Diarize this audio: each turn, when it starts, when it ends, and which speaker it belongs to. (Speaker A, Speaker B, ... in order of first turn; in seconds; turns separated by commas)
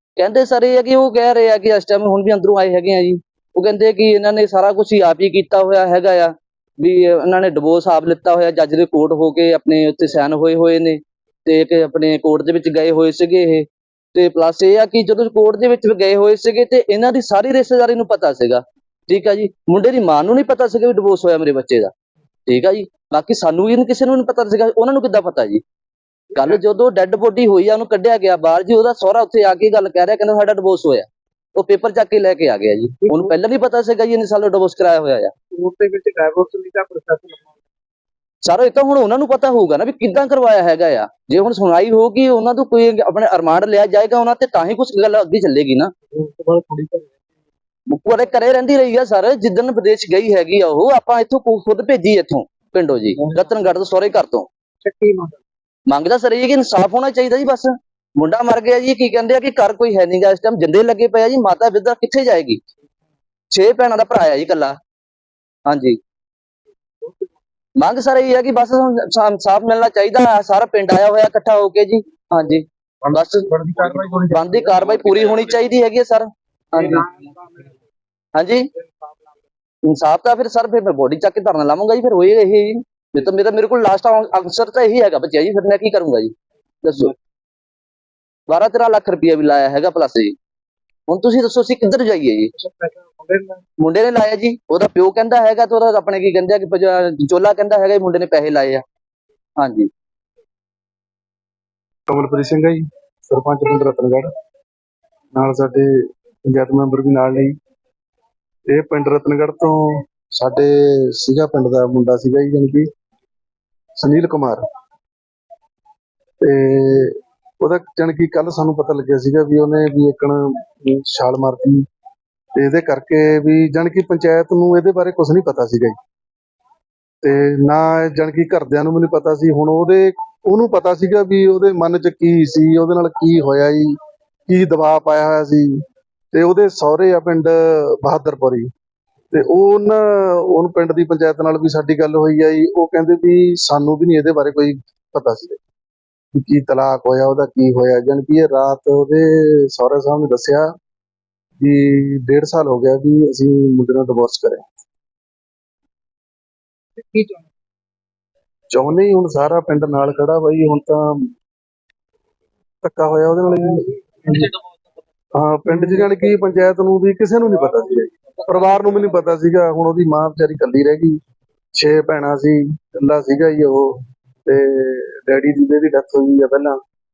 Speaker A: 0.2-21.9, Speaker A: 22.5-25.6, Speaker B: 26.3-26.6, Speaker A: 26.4-35.3, Speaker B: 33.0-33.3, Speaker B: 35.5-37.6, Speaker A: 38.4-45.9, Speaker B: 46.1-47.1, Speaker A: 47.9-54.5, Speaker B: 53.2-53.7, Speaker B: 54.8-55.4, Speaker A: 55.9-62.6, Speaker A: 63.5-64.8, Speaker A: 65.7-66.0, Speaker B: 67.0-67.3, Speaker A: 67.8-73.5, Speaker B: 73.2-74.8, Speaker A: 74.3-77.1, Speaker B: 76.7-77.8, Speaker A: 78.3-78.7, Speaker B: 78.8-79.4, Speaker A: 79.9-87.1, Speaker A: 88.5-90.3, Speaker A: 91.1-92.5, Speaker B: 92.6-93.6, Speaker A: 93.8-98.8, Speaker A: 99.6-99.9, Speaker C: 102.1-104.3, Speaker C: 105.3-105.9, Speaker C: 106.5-107.5, Speaker C: 108.7-112.9, Speaker C: 114.0-114.6, Speaker C: 116.4-121.8, Speaker C: 122.6-126.0, Speaker C: 127.2-133.9, Speaker C: 134.5-135.8, Speaker C: 136.3-138.7, Speaker C: 139.3-145.6, Speaker C: 146.3-150.7, Speaker C: 151.6-154.7, Speaker B: 157.0-157.5, Speaker C: 158.7-161.3, Speaker C: 162.8-164.5, Speaker C: 165.3-171.2, Speaker C: 171.8-176.8